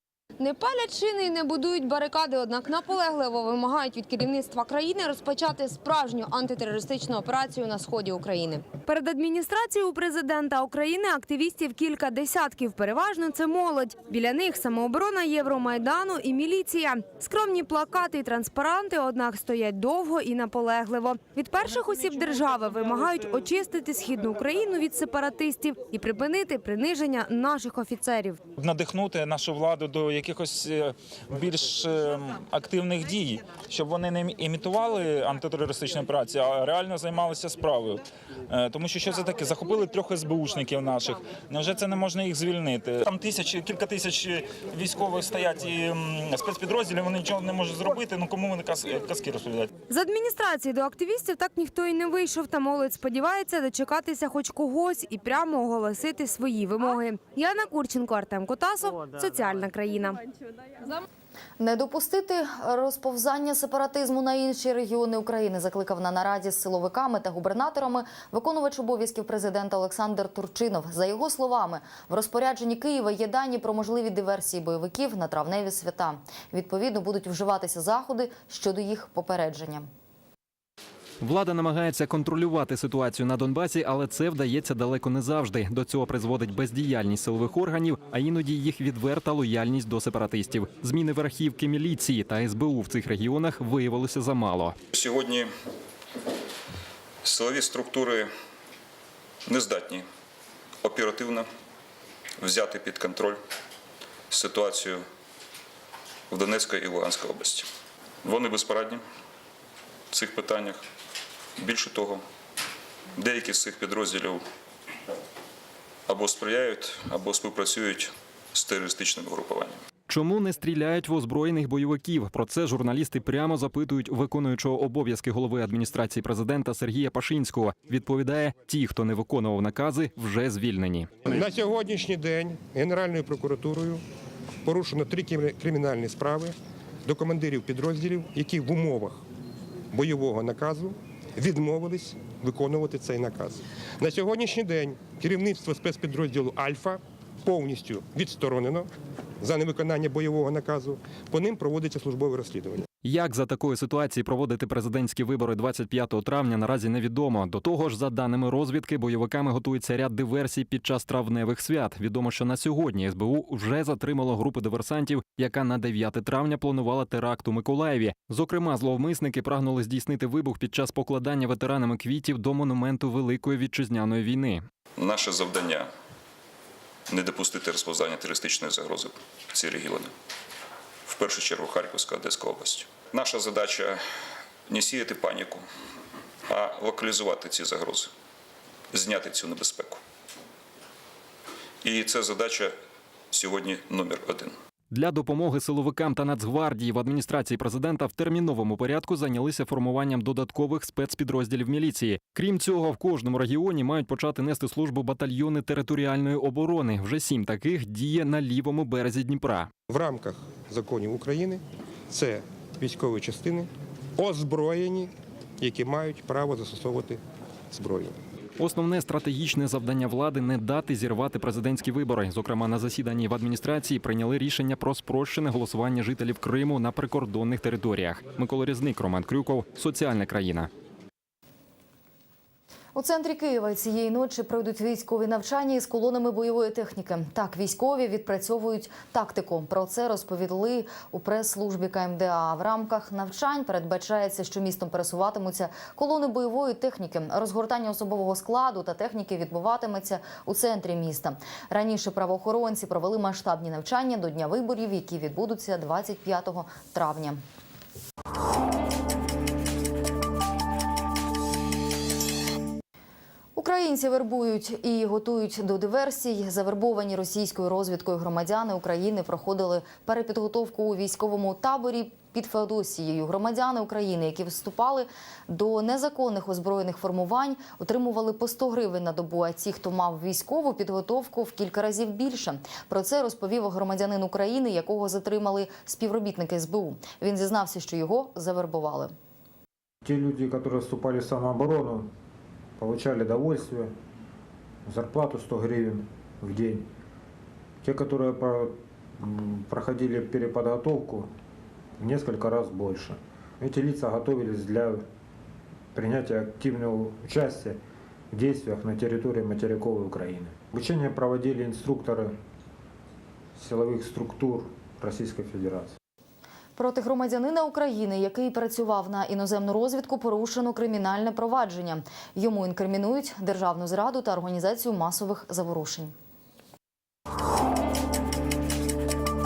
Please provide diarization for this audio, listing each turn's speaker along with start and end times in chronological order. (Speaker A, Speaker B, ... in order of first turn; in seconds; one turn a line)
Speaker A: 0.4-28.4
Speaker B: 28.6-49.7
Speaker A: 49.9-60.2
Speaker C: 61.6-79.9
Speaker D: 81.2-94.8
Speaker E: 94.9-95.5
Speaker E: 97.2-98.3
Speaker E: 99.5-100.1
Speaker E: 100.8-101.5
Speaker E: 102.4-103.4
Speaker E: 104.3-105.0
Speaker E: 106.3-107.7
Speaker E: 108.2-109.0
Speaker E: 110.1-110.8
Speaker E: 111.6-112.2
Speaker E: 113.2-114.5
Speaker E: 116.1-119.8
Speaker D: 120.1-131.4
Speaker F: 131.3-134.0
Speaker F: 134.7-139.2
Speaker F: 139.9-148.9
Speaker F: 149.4-152.8
Speaker D: 153.0-174.6
Speaker E: 175.0-175.9
Speaker E: 177.1-180.1
Speaker E: 181.1-184.0
Speaker E: 184.7-185.7
Speaker E: 186.5-188.1
Speaker E: 188.9-190.0
Speaker E: 191.8-192.8
Speaker E: 193.3-194.6
Speaker D: 194.9-209.7
Speaker F: 209.9-218.2
Speaker D: 218.6-230.7
Speaker C: 232.9-257.4
Speaker C: 263.6-289.1
Speaker G: 290.1-292.1
Speaker G: 292.8-293.9
Speaker G: 294.9-296.9
Speaker G: 297.8-301.3
Speaker G: 302.0-305.0
Speaker G: 306.0-307.8
Speaker G: 308.3-312.3
Speaker G: 313.6-315.9
Speaker C: 316.8-326.1